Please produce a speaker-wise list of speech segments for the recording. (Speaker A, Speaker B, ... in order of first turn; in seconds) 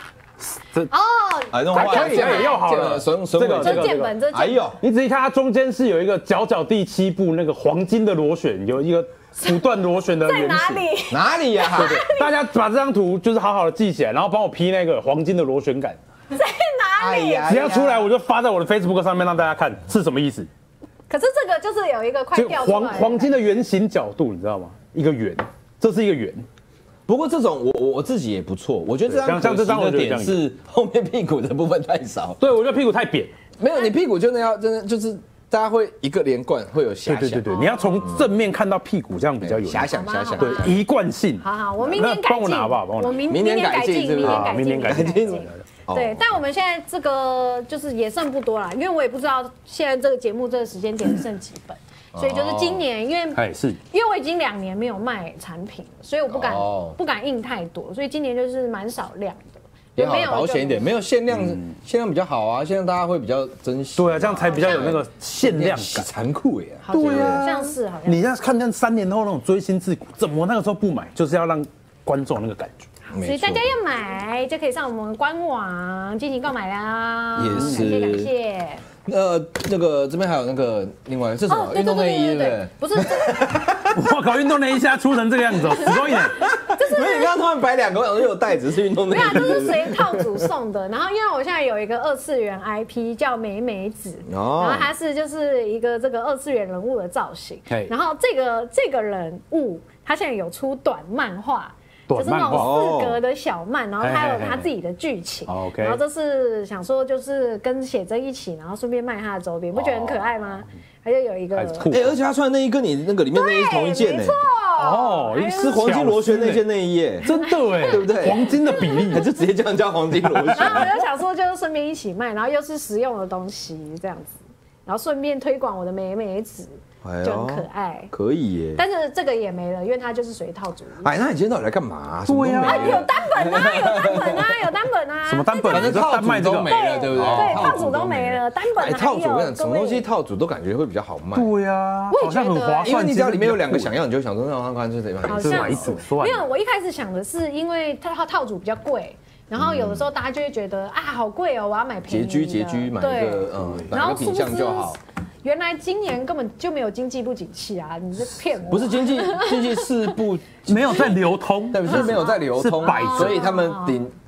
Speaker A: 0.4-0.9, 1.7-4.1, 4.8-10.8, 11.8-16.0, 17.4-20.5, 22.3-26.4, 29.1-30.4, 32.4-33.3, 37.0-43.2, 44.2-45.6, 53.3-53.8, 64.0-66.1, 66.9-72.8, 77.5-77.9, 83.9-86.4, 102.1-102.7, 104.0-104.7, 105.5-106.0, 111.5-112.2, 114.8-116.6, 117.2-119.2, 120.3-120.8, 132.3-133.0, 135.3-137.8, 141.3-143.9, 145.3-146.4, 160.7-163.5
Speaker B: 0.9-2.8, 3.5-4.6, 9.4-12.3, 16.3-17.6, 21.1-23.4, 37.5-38.2, 39.9-40.8, 41.4-61.0, 64.5-65.0, 66.8-68.3, 73.2-78.8, 81.5-83.6, 85.6-87.4, 89.1-111.9, 113.3-115.8, 117.3-119.2, 120.5-128.1, 128.8-131.1, 132.6-136.0, 136.6-140.1, 142.1-142.9, 145.3-159.9, 161.8-164.0
Speaker C: 1.5-4.8, 11.1-12.0, 17.0-18.1, 27.1-32.4, 33.6-37.5, 38.0-38.3, 39.4-40.8, 43.2-46.4, 52.1-52.8, 56.3-57.0, 60.0-67.4, 73.1-73.7, 77.3-78.3, 79.0-83.9, 85.9-90.5, 94.3-94.9, 102.5-103.2, 109.7-110.2, 111.9-114.4, 115.6-117.3, 117.8-120.9, 127.0-128.8, 131.0-134.5, 135.7-141.5, 142.8-145.9, 149.5-150.1, 152.1-155.0, 158.7-161.2, 161.7-164.1